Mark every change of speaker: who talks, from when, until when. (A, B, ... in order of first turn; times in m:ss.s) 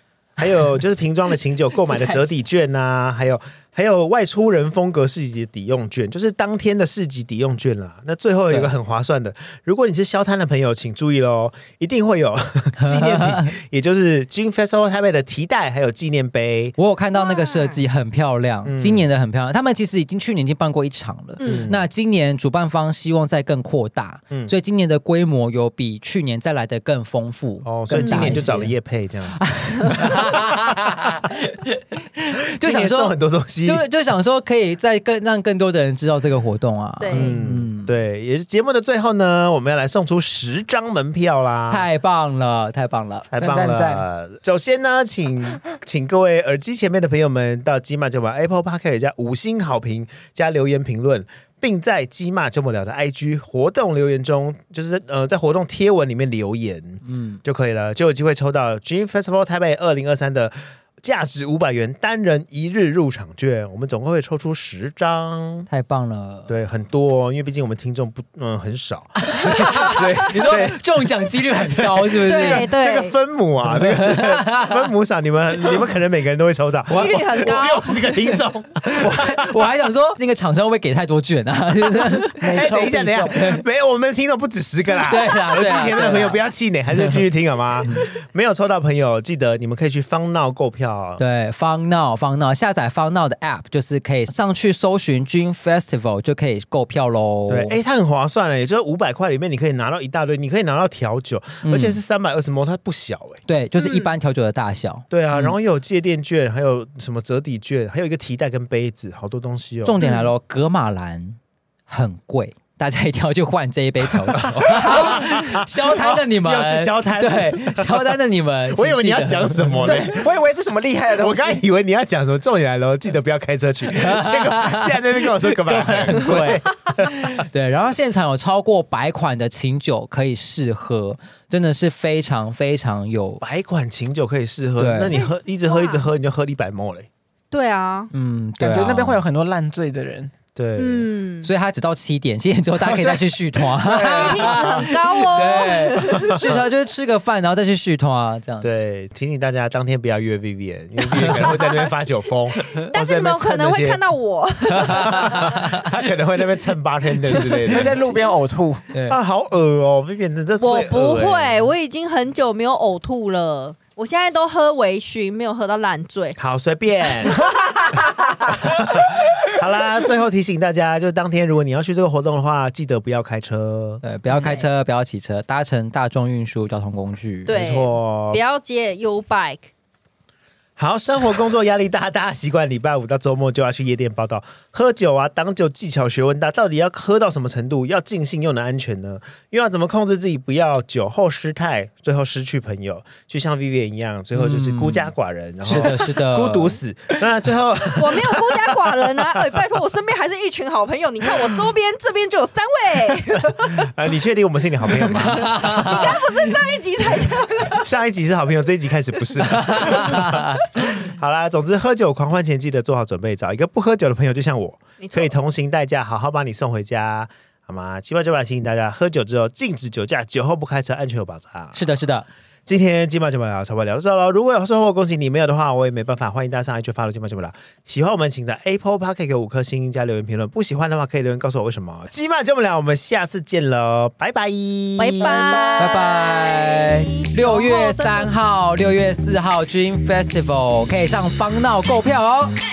0:00.4-0:16.7 A
0:01.9-0:02.3 B
0:08.5-0:08.7 C
0:12.8-0:13.6 C
0:16.8-0:28.7 C
0:17.1-0:17.8 B
0:18.6-0:19.0 A
0:21.4-0:21.7 B
0:21.4-0:21.8 A
0:27.6-0:31.0 A
0:27.9-0:28.4 B
0:29.4-0:33.1 C
0:32.6-0:33.8 A
0:33.6-0:37.9 C
0:37.0-0:37.4 B
0:37.1-0:41.9 A
0:41.7-0:43.3 C
0:43.3-1:05.7 A
0:43.3-0:44.0 D
0:57.0-0:57.4 C
1:05.7-1:06.5 C
1:06.5-1:19.6 A
1:09.2-1:12.7 C
1:12.2-1:13.2 B
1:13.7-1:14.9 C
1:16.9-1:18.3 B
1:18.9-1:22.5 C
1:22.4-1:23.5 D
1:22.5-1:31.2 A
1:25.0-1:26.4 C
1:31.2-1:37.8 C
1:37.5-1:43.4 A
1:41.6-1:42.0 C
1:43.5-1:45.6 C
1:43.8-1:44.1 B
1:45.1-1:50.0 A
1:49.8-2:00.0 C
1:50.0-1:50.2 B
1:54.4-1:58.0 A
1:58.7-2:00.3 A
1:59.8-2:01.6 D
2:01.2-2:07.4 A
2:03.9-2:13.4 C
2:13.4-2:17.1 A
2:14.8-2:15.1 C
2:15.1-2:16.0 B
2:17.5-2:18.1 B
2:18.1-2:19.2 C
2:18.6-2:20.3 D
2:20.5-2:21.1 A
2:20.8-2:21.5 B
2:21.4-2:28.7 C
2:22.8-2:24.9 D
2:24.0-2:26.5 B
2:26.1-2:26.6 A
2:28.6-2:34.0 A
2:32.8-2:35.6 B
2:34.7-2:35.8 C
2:34.8-2:38.0 A
2:37.2-2:38.2 B
2:37.5-2:38.9 D
2:38.9-2:39.2 C
2:39.1-2:41.6 A
2:40.6-2:46.4 B
2:46.4-2:54.0 A
2:47.2-2:48.5 B
2:54.0-2:57.6 C
2:54.3-2:54.7 B
2:57.5-2:59.7 B
2:57.5-2:58.4 A
3:00.8-3:19.3 A
3:14.3-3:16.8 C
3:18.0-3:23.9 B
3:23.6-3:26.1 A
3:25.2-3:26.1 C
3:25.4-3:27.8 B
3:27.7-3:41.8 A
3:29.7-3:30.6 C
3:35.0-3:35.3 B
3:41.7-3:42.3 C
3:42.6-3:55.6 A
3:55.0-3:58.3 B
3:55.2-3:55.9 D
3:55.8-4:02.5 C